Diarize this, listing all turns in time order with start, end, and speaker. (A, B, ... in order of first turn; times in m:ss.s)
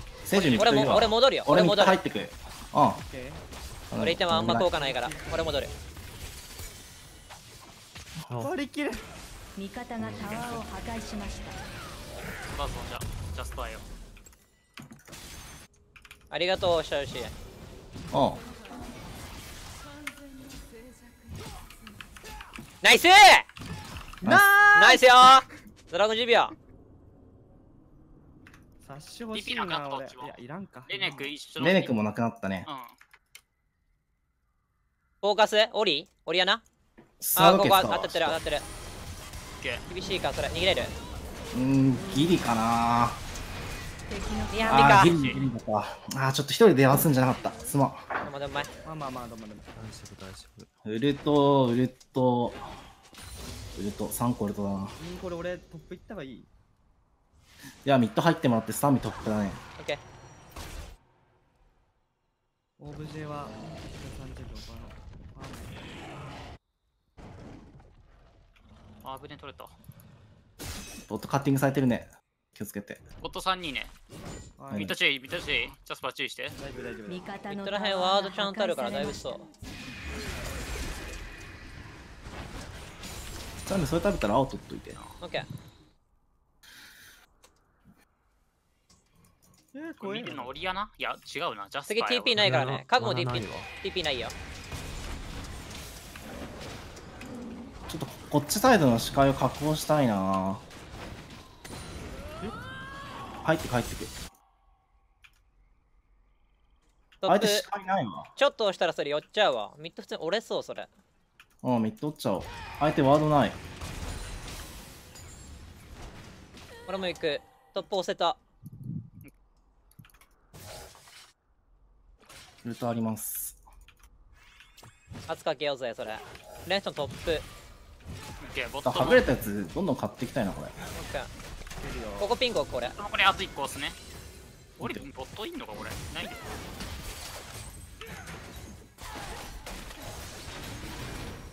0:00.2-0:03.0 A
0:00.6-0:02.0 B
0:03.0-0:03.4 C
0:03.9-0:04.7 A
0:04.0-0:05.7 B
0:04.5-0:05.5 C
0:08.3-0:08.5 D
0:08.4-0:09.0 C
0:09.6-0:11.6 E
0:10.0-0:10.4 D
0:10.2-0:10.5 F
0:12.5-0:13.9 F
0:16.3-0:17.3 B
0:18.1-0:18.4 A
0:22.8-0:23.5 B
0:24.2-0:25.4 C
0:24.2-0:24.5 A
0:24.7-0:26.6 B
0:28.8-0:31.3 C
0:29.3-0:32.0 F
0:31.6-0:32.7 A
0:32.7-0:33.0 F
0:35.2-0:36.6 B
0:37.2-0:38.4 A
0:37.4-0:38.6 B
0:39.6-0:39.8 F
0:39.9-0:40.9 B
0:41.5-0:43.2 A
0:42.0-0:42.4 E
0:44.1-0:45.1 E
0:44.5-0:45.1 B
0:44.7-0:48.1 A
0:45.0-0:45.4 F
0:48.2-0:48.7 B
0:48.8-0:49.7 C
0:49.8-0:50.7 D
0:50.8-0:52.6 A
0:53.8-0:55.0 A
0:55.0-0:56.5 C
0:57.8-0:59.6 A
1:02.8-1:05.8 C
1:09.0-1:09.8 F
1:11.1-1:13.0 A
1:13.2-1:13.9 F
1:14.6-1:15.0 C
1:14.7-1:16.6 F
1:16.6-1:17.3 C
1:17.1-1:19.5 E
1:17.5-1:19.5 B
1:23.7-1:25.0 A
1:25.2-1:25.5 B
1:29.7-1:30.5 C
1:30.0-1:32.5 F
1:31.9-1:34.3 B
1:32.4-1:33.7 D
1:37.9-1:40.6 A
1:43.4-1:44.2 A
1:47.2-1:47.6 B
1:47.3-1:48.3 A
1:48.4-1:50.9 B
1:51.6-1:53.6 A
1:56.9-1:58.4 B
2:02.6-2:03.6 A
2:05.3-2:07.5 B
2:08.4-2:09.3 F
2:08.8-2:10.8 A
2:10.9-2:11.3 B
2:11.8-2:12.3 C
2:12.2-2:13.0 B
2:13.0-2:14.0 F
2:14.8-2:16.4 F